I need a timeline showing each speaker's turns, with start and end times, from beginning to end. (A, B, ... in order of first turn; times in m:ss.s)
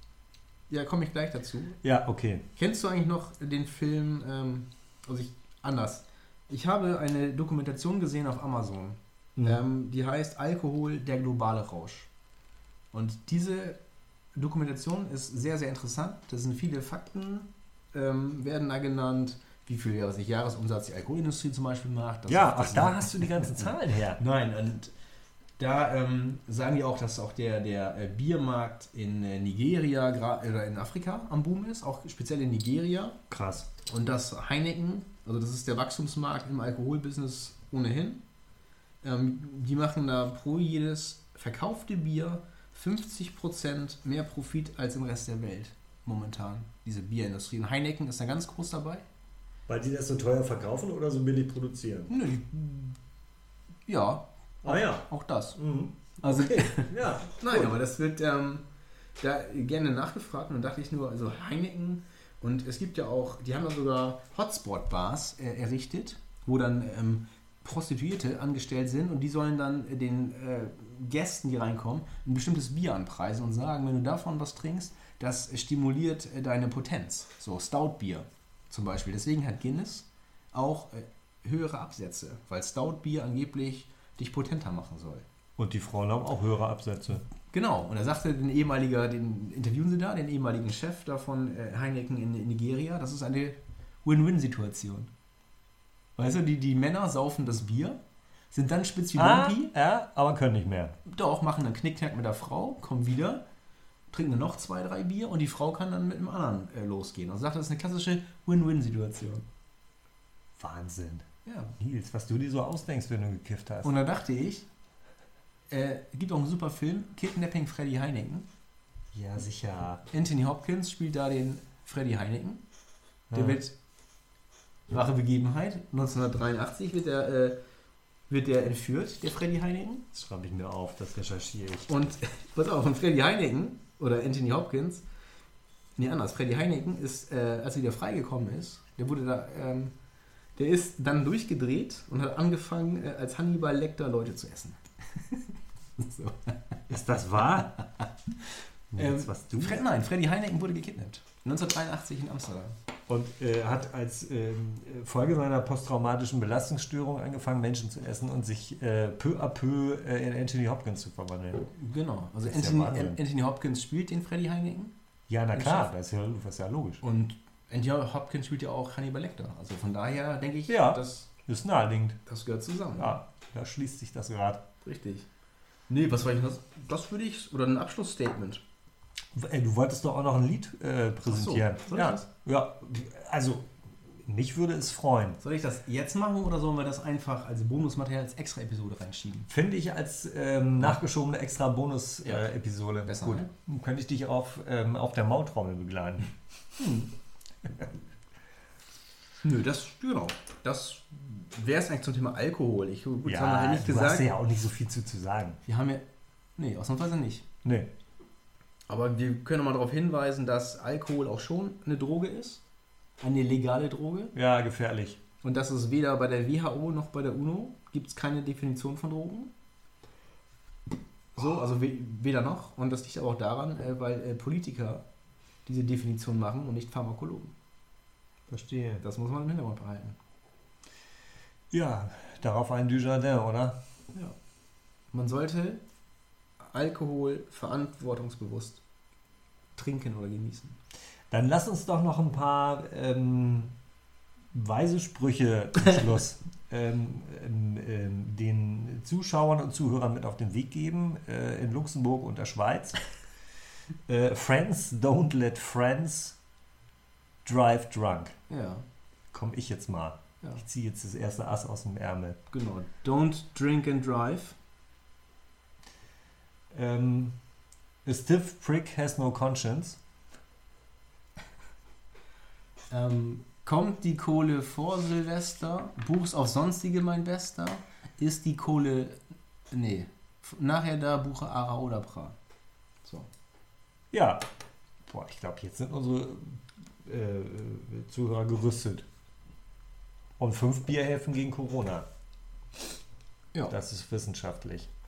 0:00.7-0:01.8 A
0:01.8-0:02.4 B
0:02.6-0:12.1 A
0:12.9-0:13.8 A
0:14.4-0:24.9 A
0:22.3-0:24.2 B
0:25.6-0:33.2 A
0:33.3-0:33.7 B
0:33.9-0:38.2 A
0:39.0-0:49.0 A
0:49.7-0:52.1 B
0:52.1-0:53.0 A
0:53.9-0:55.6 A
0:54.6-0:57.8 B
0:56.2-0:58.6 A
0:59.2-1:25.3 A
1:25.6-1:27.3 B
1:27.5-1:35.1 A
1:36.2-1:38.0 A
1:38.5-1:39.7 A
1:39.2-1:41.0 B
1:41.1-1:43.4 A
1:44.1-1:49.4 A
1:50.6-1:54.0 B
1:51.4-1:51.7 A
1:53.8-1:54.7 A
1:55.7-1:58.5 A
1:59.1-2:00.0 B
2:00.1-2:02.6 A
2:03.3-2:03.6 B
2:03.3-2:03.8 A
2:04.9-2:07.6 A
2:08.3-2:10.0 A
2:10.1-2:11.9 B
2:11.9-2:15.0 A
2:16.0-2:19.9 A
2:20.6-2:26.8 A
2:26.9-2:27.8 B
2:27.7-2:32.8 A
2:28.9-2:29.8 B
2:33.1-2:41.7 B
2:41.7-2:44.9 A
2:42.4-2:43.2 B
2:45.3-2:47.0 B
2:45.5-2:45.9 A
2:47.0-2:51.3 A
2:50.7-2:52.2 B
2:52.2-2:53.2 A
2:53.0-2:54.6 B
2:54.8-2:55.3 A
2:55.9-2:58.6 A
2:59.3-3:05.4 B
3:01.3-3:02.3 A
3:05.4-3:09.5 A
3:09.5-3:16.3 B
3:13.0-3:13.5 A
3:16.8-3:17.1 A
3:19.4-3:24.3 A
3:23.2-3:25.6 B
3:25.6-3:26.0 A
3:26.6-3:27.4 A
3:27.6-3:27.9 B
3:28.9-3:32.6 A
3:33.2-3:34.3 A
3:34.3-3:35.2 B
3:35.4-3:39.5 A
3:41.4-3:45.0 A
3:45.7-3:47.5 A
3:48.5-3:49.0 B
3:49.0-3:50.2 A
3:51.7-3:53.8 B
3:55.1-3:55.8 A
3:56.6-3:58.8 A
3:59.8-4:00.8 A
4:01.3-4:03.7 B
4:04.5-4:13.0 B
4:14.1-4:16.4 B
4:17.4-4:18.4 B
4:18.5-4:18.8 A
4:19.3-4:22.4 B
4:22.5-4:24.6 A
4:26.7-4:27.4 B
4:28.0-4:30.0 B
4:32.9-4:39.2 A
4:39.7-4:42.4 A
4:43.0-4:43.3 A
4:44.1-4:44.4 B
4:45.0-4:49.1 B
4:50.4-4:52.1 B
4:53.7-4:54.9 B